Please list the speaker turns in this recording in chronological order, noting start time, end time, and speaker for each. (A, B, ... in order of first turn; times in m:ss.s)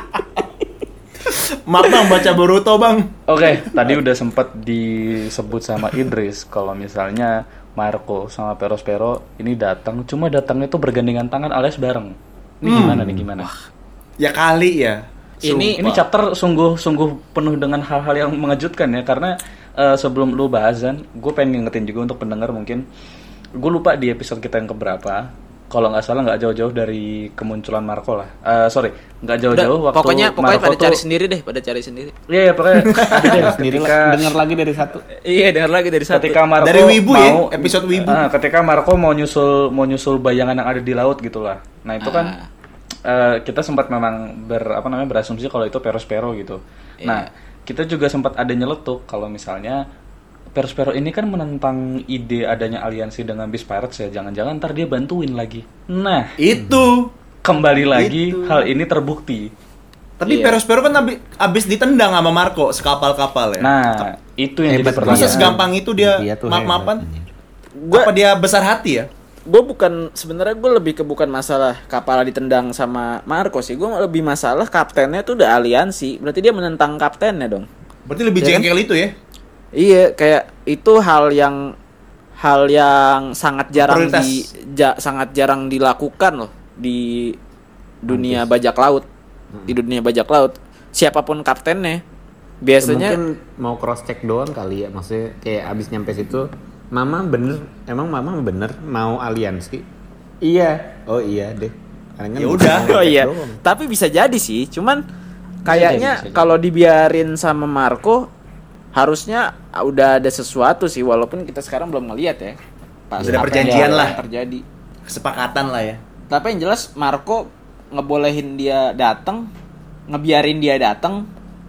0:01.3-0:03.1 A
0:03.3-0:13.5 B
0:12.6-0:13.0 A
0:12.7-0:13.3 C
0:14.2-0:16.0 A
0:15.4-0:15.8 D
0:15.8-0:22.8 B
0:23.6-0:31.0 B
0:29.5-0:32.1 D
0:32.3-0:34.4 B
0:32.9-0:33.3 A
0:33.2-0:35.0 C
0:35.2-0:36.4 D
0:36.1-0:42.3 B
0:36.6-0:38.2 A
0:42.0-0:42.5 D
0:43.0-0:49.8 B
0:47.0-0:47.3 D
0:50.5-0:56.3 B
0:56.4-0:57.1 A
0:56.6-0:56.8 C
0:57.4-0:59.5 B
0:57.8-0:58.7 A
1:00.2-1:03.7 A
1:00.2-1:00.6 D
1:03.6-1:05.5 B
1:04.7-1:07.3 C
1:05.0-1:07.0 A
1:07.8-1:08.1 D
1:07.9-1:09.1 A
1:09.5-1:17.7 D
1:18.1-1:19.1 A
1:18.4-1:18.7 D
1:19.7-1:21.7 D
1:22.4-1:27.4 D
1:23.8-1:24.4 A
1:28.0-1:29.0 D
1:28.1-1:28.5 C
1:29.7-1:32.0 D
1:32.6-1:33.2 D
1:32.8-1:39.9 C
1:40.4-1:43.6 C
1:42.4-1:43.0 A
1:42.7-1:45.0 D
1:45.6-1:48.3 D
1:45.6-1:46.5 B
1:48.9-1:52.6 D
1:53.1-1:54.6 D
1:53.2-1:53.5 C
1:53.2-1:54.2 A
1:53.6-1:54.2 B
1:55.1-1:56.0 A
1:56.3-1:59.5 D
2:00.1-2:01.3 D